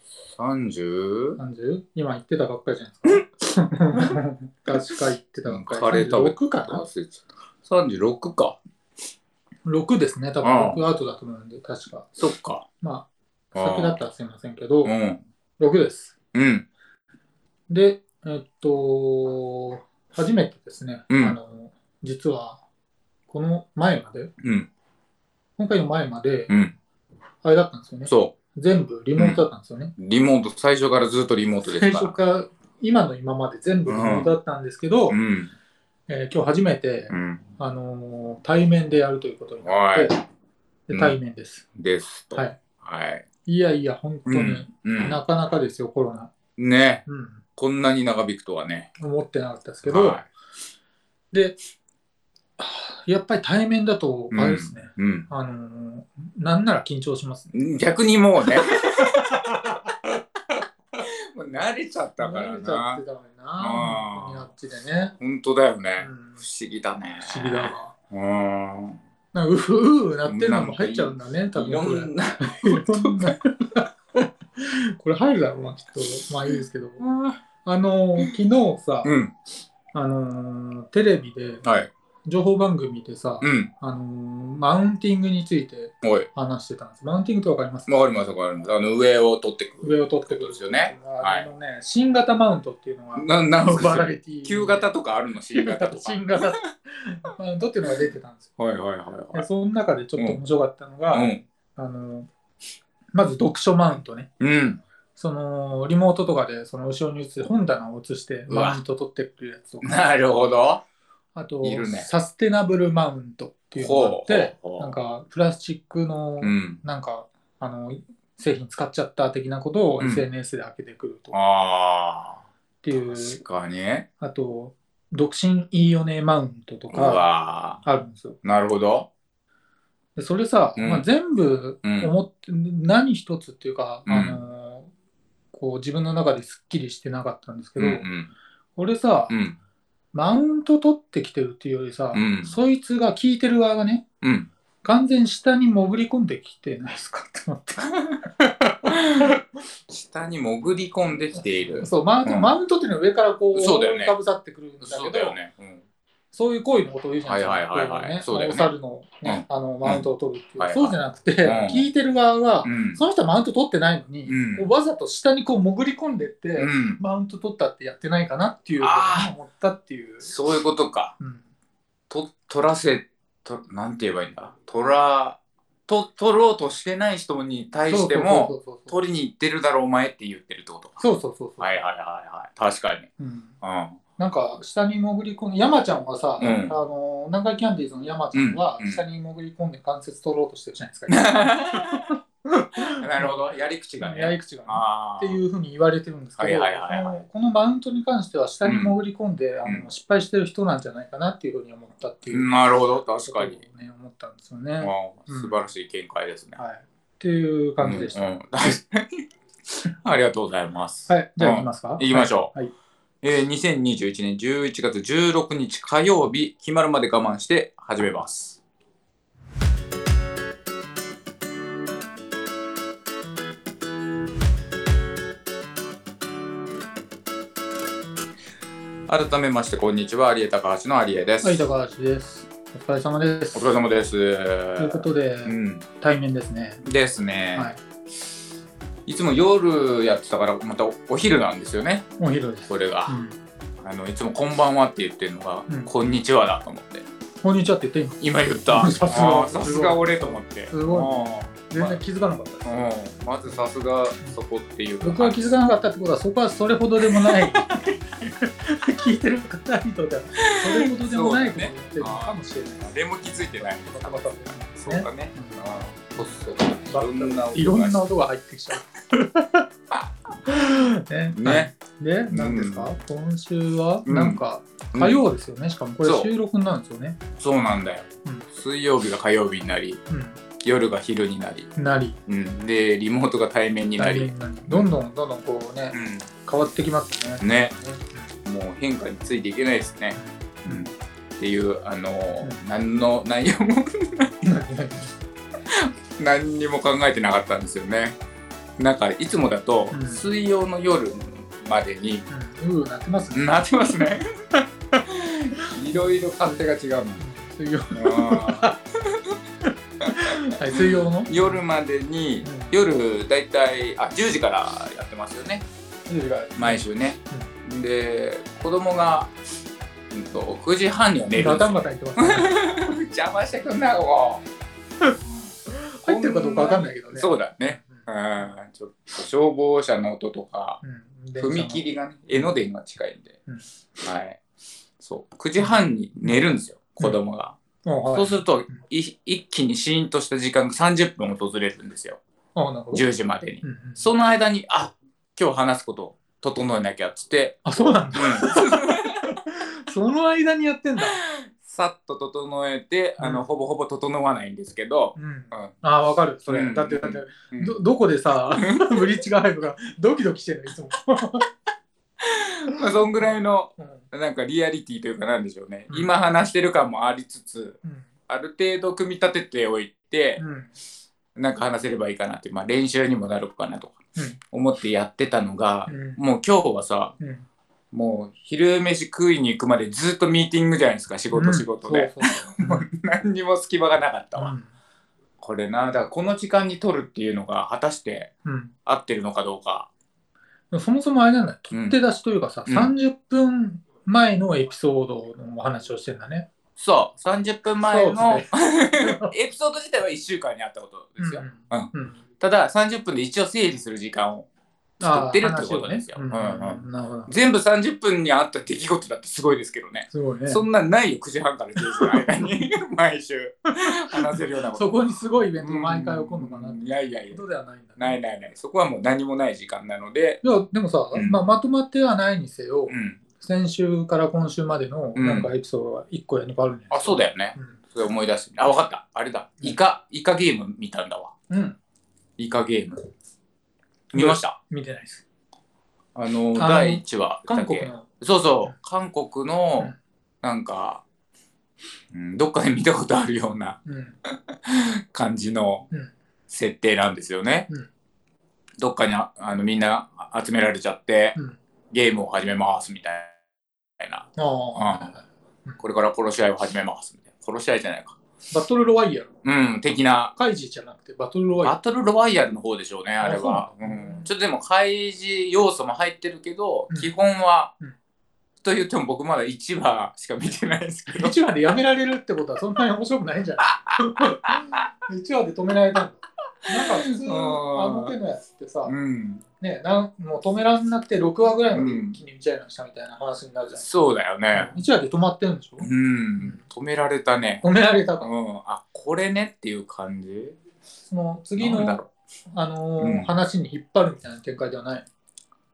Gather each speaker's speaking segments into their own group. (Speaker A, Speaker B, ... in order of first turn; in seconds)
Speaker A: 0.3-1.4, 5.5-8.6, 10.4-10.8, 12.2-12.7, 13.5-14.0, 14.8-15.2, 16.3-16.7, 21.1-21.4, 24.4-24.7, 26.5-26.7, 28.1-28.3, 29.1-29.4, 30.0-32.1, 33.9-34.3, 35.1-35.5, 37.1-37.5, 39.6-40.1, 41.7-43.2, 44.2-45.2, 46.6-47.0, 47.6-48.9, 49.8-50.3, 54.3-55.3, 57.5-59.8, 61.0-63.0, 63.6-64.5, 65.2-69.0, 70.3-73.3, 77.0-77.3, 79.0-79.3, 81.6-81.9, 83.4-83.7, 87.9-91.5, 93.2-96.4, 98.6-99.4, 101.1-101.4, 104.4-104.8, 108.5-108.8, 109.8-110.8, 111.6-112.1, 113.8-114.9, 116.4-116.8, 120.0-120.2, 121.3-122.4, 123.0-124.1, 126.9-127.8, 128.4-129.1, 130.8-131.1, 131.8-132.1, 134.1-134.4, 137.8-138.3, 139.3-139.6, 142.1-142.6, 144.2-144.5, 148.8-152.5, 153.5-154.1, 154.8-155.8, 157.2-158.7, 159.2-160.1, 160.6-161.8, 162.6-163.0, 164.3-164.7, 166.6-167.0, 168.8-169.3, 170.2-171.1, 172.1-181.0, 181.6-183.1, 183.6-184.0, 186.4-186.7, 188.3-189.0, 191.1-192.1, 192.9-195.4, 196.4-197.2, 198.6-198.9, 202.3-203.6, 204.8-206.6, 207.8-209.2, 210.0-212.5, 213.2-218.6, 229.1-231.6, 233.5-235.8, 236.8-237.7, 239.1-242.1, 242.7-243.2, 243.8-247.0, 248.2-252.0, 252.6-255.5, 257.1-258.0, 260.6-268.0, 271.3-271.7, 272.3-272.9, 274.1-274.4, 274.9-275.2, 276.0-276.3, 277.4-280.0, 280.6-281.7, 282.3-284.9, 285.9-286.3, 287.4-287.8, 288.4-294.3, 295.7-298.2, 298.8-302.2, 303.3-304.2, 305.0-307.2, 307.9-309.4, 310.7-315.6, 316.6-319.3, 320.1-324.4, 326.0-330.8, 331.4-333.4, 334.0-334.4, 335.0-337.6, 338.1-342.2, 342.9-347.6, 348.2-349.2, 351.0-355.7, 356.5-357.8, 358.5-359.1, 362.2-367.8, 368.3-370.4, 371.4-374.0, 374.5-377.1, 377.9-384.5, 385.4-388.3, 388.9-389.9, 391.7-392.0, 392.7-392.9, 396.8-404.5, 405.0-415.0, 415.6-417.4, 418.0-420.4, 421.1-421.4, 422.9-423.2, 425.1-425.5, 426.9-431.3, 432.4-433.0, 434.1-434.6, 436.1-441.0, 442.1-443.8, 444.6-445.9, 446.5-447.7, 448.8-451.4, 451.9-453.3, 454.8-455.1, 455.8-458.2, 459.4-460.3, 461.6-467.7, 468.6-471.4, 474.3-474.7, 476.7-478.1, 478.8-479.4, 481.7-482.2, 483.7-484.8, 485.8-487.6, 488.2-490.6, 491.6-492.1, 493.0-493.3
Speaker B: 1.4-6.8, 9.7-12.2, 12.8-14.9, 15.6-16.1, 17.7-22.6, 23.3-24.3, 25.6-26.5, 27.4-29.9, 31.6-35.2, 36.1-40.2, 40.9-41.6, 43.4-46.3, 47.0-47.4, 49.0-50.2, 51.3-51.6, 52.6-57.5, 59.0-59.9, 62.2-65.1, 66.0-66.4, 67.2-67.9, 69.3-77.1, 77.6-79.1, 79.9-81.7, 82.2-88.0, 89.8-94.9, 95.5-98.4, 99.3-102.3, 103.1-104.3, 105.2-110.0, 111.3-121.3, 122.8-123.4, 124.2-127.3, 127.8-128.4, 130.2-134.9, 135.5-138.0, 138.8-139.3, 140.1-144.0, 144.8-149.3, 151.4-155.4, 156.3-170.3, 177.9-179.0, 181.0-181.8, 183.2-183.5, 184.2-193.4, 194.0-202.7, 203.2-205.7, 206.6-208.2, 211.1-212.7, 231.4-233.8, 234.8-236.8, 237.5-237.8, 242.2-243.3, 247.4-252.9, 253.4-254.4, 255.0-257.9, 258.4-269.6, 270.4-277.2, 280.1-280.4, 281.8-282.2, 284.0-288.3, 290.1-290.9, 294.4-295.1, 299.9-300.2, 302.3-303.5, 305.6-306.6, 307.2-308.8, 310.1-311.6, 312.4-312.7, 316.1-317.5, 321.3-322.6, 325.0-328.5, 330.8-331.8, 335.6-336.5, 337.8-338.8, 342.5-343.1, 343.6-344.1, 347.6-351.2, 353.2-353.4, 355.1-361.5, 362.8-364.1, 367.8-368.1, 370.4-370.7, 375.9-376.2, 377.2-377.4, 381.3-382.9, 384.4-384.7, 388.4-388.7, 390.7-396.5, 397.9-399.3, 401.2-402.2, 405.0-407.3, 410.1-410.6, 411.8-412.5, 414.1-418.2, 420.4-427.8, 431.5-431.8, 434.1-435.2, 436.5-438.1, 443.9-444.1, 454.4-455.8, 458.5-459.3, 460.4-461.7, 463.2-464.3, 471.1-478.9, 479.6-483.9, 484.5-485.9, 487.6-488.3, 491.1-492.0, 492.5-495.1